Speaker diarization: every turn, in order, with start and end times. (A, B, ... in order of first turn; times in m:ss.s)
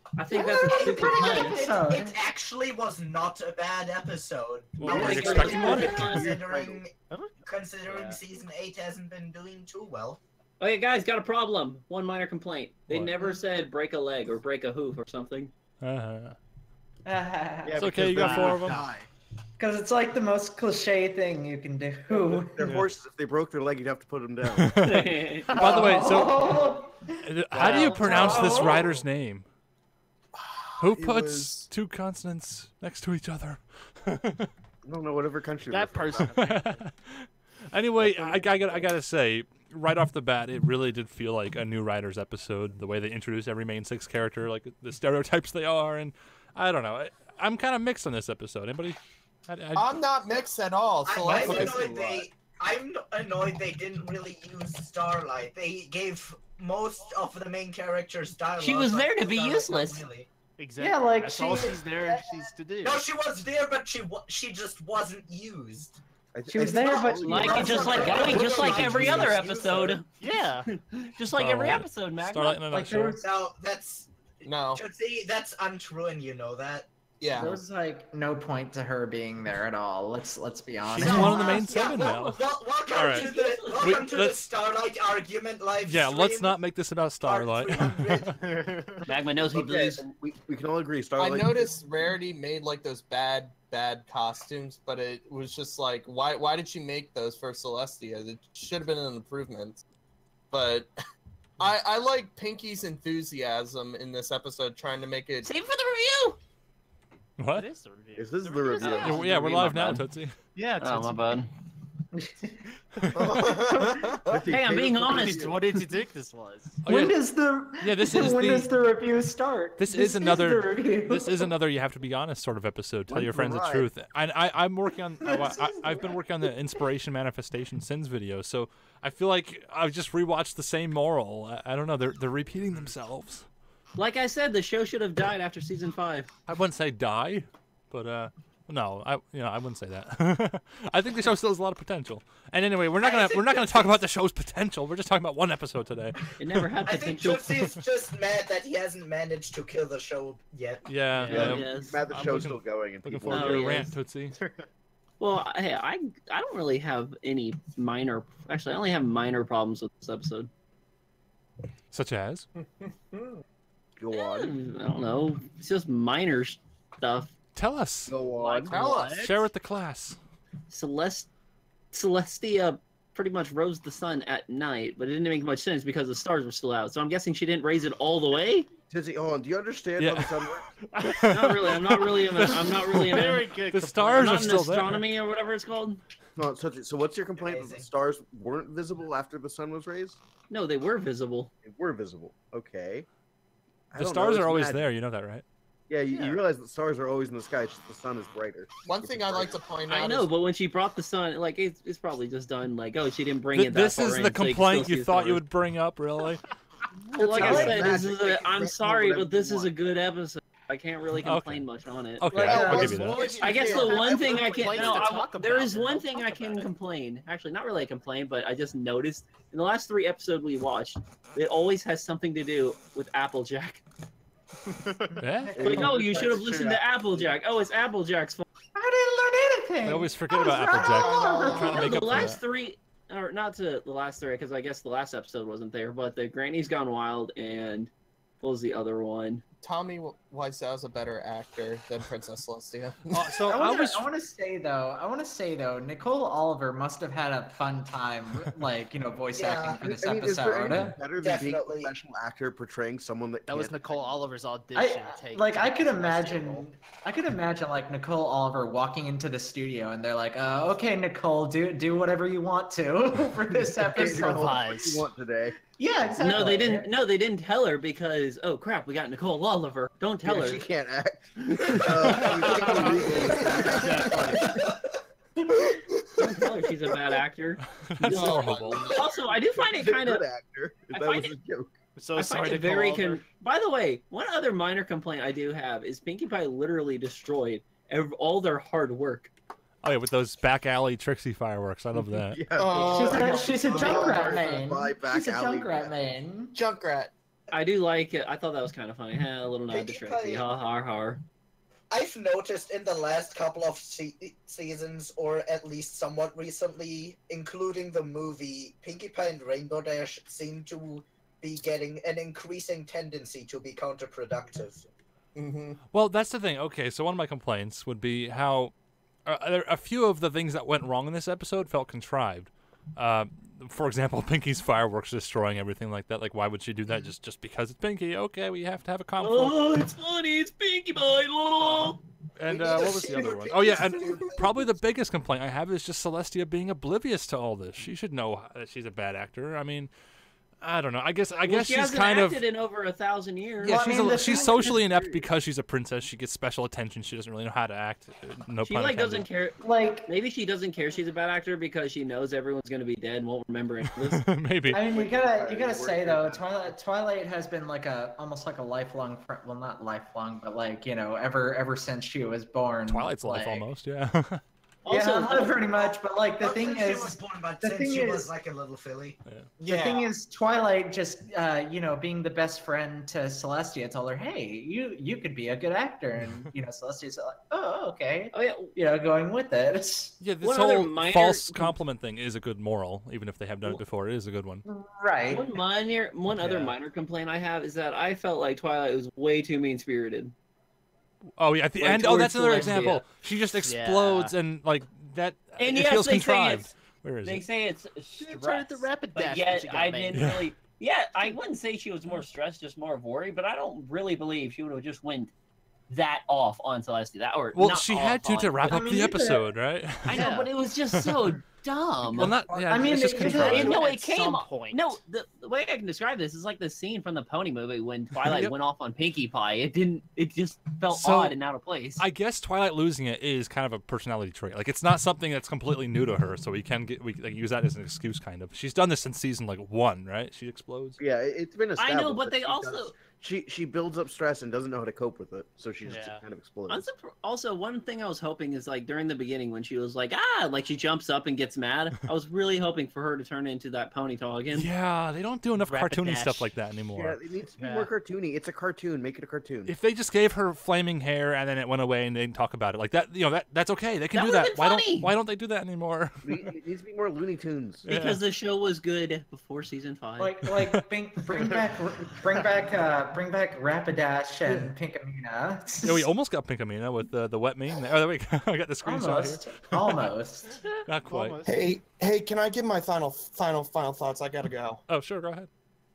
0:00.2-0:01.6 A
0:00.3-0:02.2 B
0:00.6-0:06.9 C
0:04.8-0:06.2 D
0:04.8-0:06.4 A
0:04.9-0:06.0 E
0:05.9-0:06.8 F
0:07.1-0:07.4 E
0:07.4-0:10.2 C
0:07.9-0:08.2 E
0:10.6-0:15.5 A
0:12.9-0:13.1 D
0:15.8-0:16.4 D
0:17.0-0:18.0 B
0:17.6-0:19.1 F
0:17.8-0:18.8 D
0:18.1-0:18.7 E
0:19.6-0:22.7 B
0:22.3-0:25.0 F
0:24.6-0:26.6 D
0:24.8-0:25.5 A
0:25.6-0:28.8 B
0:27.2-0:29.5 D
0:27.5-0:28.8 E
0:30.4-0:30.6 G
0:30.8-0:34.5 D
0:31.0-0:31.6 F
0:34.8-0:36.5 F
0:35.6-0:36.9 E
0:36.4-0:49.9 D
0:38.0-0:38.9 F
0:49.8-0:52.2 G
0:51.0-1:00.3 C
0:58.6-1:00.0 A
1:00.6-1:03.0 E
1:00.8-1:01.8 B
1:01.9-1:06.0 C
1:06.3-1:10.0 F
1:06.5-1:08.5 B
1:06.6-1:09.9 C
1:07.2-1:10.1 A
1:10.1-1:10.7 E
1:10.7-1:12.6 A
1:11.3-1:13.2 D
1:12.7-1:13.3 B
1:13.2-1:14.1 C
1:14.4-1:14.8 G
1:14.7-1:16.9 C
1:17.2-1:17.6 G
1:17.4-1:21.7 B
1:20.8-1:23.3 D
1:21.0-1:26.6 C
1:23.0-1:24.0 A
1:23.8-1:24.4 D
1:25.8-1:28.3 D
1:27.2-1:28.4 C
1:28.4-1:29.1 E
1:29.0-1:30.1 A
1:29.4-1:31.8 F
1:31.2-1:39.8 G
1:40.5-1:40.9 G
1:41.6-1:45.5 G
1:45.4-1:46.4 A
1:47.4-1:47.7 D
1:47.5-1:50.0 E
1:48.2-1:49.9 F
1:48.9-1:50.4 D
1:50.6-1:51.2 E
1:50.8-1:51.5 A
1:52.2-1:52.5 B
1:53.1-1:53.4 D
1:53.1-1:55.6 F
1:53.8-1:54.2 B
1:54.5-1:55.6 A
1:55.0-1:56.8 E
1:56.8-1:57.2 D
1:56.8-2:01.5 B
1:57.8-1:58.7 D
1:59.8-2:13.5 D
2:03.1-2:03.9 F
2:05.3-2:06.2 B
2:14.0-2:16.3 A
2:16.5-2:26.6 D
2:23.0-2:24.0 C
2:26.4-2:27.5 A
2:26.8-2:30.9 C
2:30.8-2:34.4 D
2:31.2-2:32.6 E
2:31.3-2:33.9 F
2:31.3-2:32.0 A
2:33.3-2:33.9 A
2:34.3-2:34.7 E
2:35.2-2:40.5 A
2:41.9-2:42.5 D
2:44.0-2:44.6 F
2:44.1-2:47.3 A
2:47.6-2:48.1 D
2:48.1-2:48.8 F
2:48.4-2:48.8 A
2:48.5-2:49.5 E
2:49.0-2:50.2 D
2:50.7-2:51.3 A
2:51.9-2:58.7 A
2:58.9-3:00.9 F
3:00.0-3:05.0 D
3:00.9-3:01.9 E
3:01.3-3:03.5 A
3:02.8-3:04.8 E
3:04.2-3:06.0 A
3:06.4-3:10.2 F
3:07.4-3:07.9 C
3:10.5-3:11.5 A
3:11.6-3:13.1 F
3:13.9-3:14.8 F
3:14.0-3:15.4 D
3:15.9-3:19.6 F
3:16.1-3:16.4 E
3:18.9-3:20.3 G
3:19.9-3:25.4 A
3:23.5-3:26.5 D
3:27.1-3:32.7 A
3:27.2-3:29.7 F
3:27.4-3:27.7 G
3:27.4-3:27.9 B
3:31.2-3:31.6 D
3:32.2-3:33.3 D
3:32.3-3:33.1 B
3:32.4-3:35.1 F
3:33.0-3:36.7 E
3:33.2-3:34.4 C
3:33.4-3:43.8 A
3:44.7-3:45.2 E
3:45.2-3:45.9 D
3:45.6-3:47.3 F
3:45.6-3:48.5 A
3:48.8-3:52.2 B
3:49.8-3:52.4 D
3:50.9-3:52.0 G
3:51.5-3:57.9 A
3:58.4-3:59.4 A
3:59.6-4:03.4 G
4:03.1-4:04.0 D
4:03.5-4:11.0 B
4:09.3-4:09.8 C
4:09.8-4:13.8 F
4:11.2-4:12.0 C
4:13.5-4:16.6 E
4:14.8-4:24.6 B
4:23.9-4:26.5 F
4:24.0-4:25.1 E
4:25.7-4:26.9 B
4:26.2-4:30.7 A
4:30.2-4:34.6 F
4:31.7-4:33.5 A
4:32.3-4:34.6 E
4:36.2-4:40.2 A
4:37.8-4:38.8 D
4:38.0-4:39.1 G
4:39.6-4:41.8 F
4:40.9-4:41.3 A
4:42.0-4:43.2 E
4:42.2-4:49.3 A
4:49.8-4:52.4 D
4:52.0-4:56.0 F
4:52.6-4:54.6 G
4:52.9-4:56.6 B
4:53.4-4:54.2 C
4:56.5-4:57.1 G
4:57.5-5:01.2 A
4:59.7-5:00.4 C
5:01.9-5:14.9 C
5:15.4-5:15.8 G
5:15.9-5:18.7 D
5:19.2-5:29.8 D
5:29.2-5:32.0 A
5:32.4-5:39.9 D
5:32.5-5:34.7 C
5:40.6-5:42.4 D
5:41.4-5:43.8 A
5:43.6-5:44.9 B
5:43.6-5:49.3 D
5:48.6-5:54.3 A
5:49.6-5:50.1 B
5:54.0-5:54.8 D
5:54.7-5:56.8 F
5:54.7-6:03.7 B
6:02.9-6:04.4 D
6:04.8-6:05.6 A
6:04.9-6:08.3 B
6:05.7-6:10.1 C
6:09.2-6:09.5 D
6:09.6-6:20.2 B
6:16.2-6:16.5 D
6:18.3-6:18.7 A
6:20.2-6:24.6 D
6:20.4-6:21.8 A
6:24.7-6:25.5 B
6:25.3-6:30.3 A
6:31.4-6:37.4 D
6:31.8-6:33.0 A
6:33.6-6:34.3 E
6:35.6-6:36.7 A
6:37.2-6:45.3 A
6:38.2-6:40.3 E
6:40.1-6:40.5 D
6:45.9-6:48.8 A
6:47.5-6:50.3 D
6:48.7-6:49.5 B
6:50.1-6:52.4 A
6:50.1-6:50.5 E
6:50.9-6:51.2 D
6:52.0-6:55.0 E
6:52.2-6:53.8 D
6:52.7-6:53.8 B
6:53.3-7:02.0 A
6:58.2-6:58.5 D
7:00.9-7:01.4 D
7:02.0-7:11.0 D
7:11.0-7:16.9 F
7:11.8-7:13.0 A
7:15.8-7:16.2 E
7:16.7-7:24.7 A
7:24.5-7:27.2 D
7:25.7-7:26.2 A
7:26.0-7:26.4 E
7:26.9-7:29.7 F
7:27.6-7:27.9 E
7:29.6-7:36.3 D
7:34.1-7:35.1 A
7:36.2-7:37.9 F
7:37.8-7:38.2 D
7:37.9-7:40.3 A
7:40.2-7:46.1 B
7:45.8-7:49.9 D
7:48.8-7:50.6 B
7:50.9-7:51.4 D
7:51.0-7:51.7 E
7:51.5-7:54.8 G
7:54.9-7:55.5 D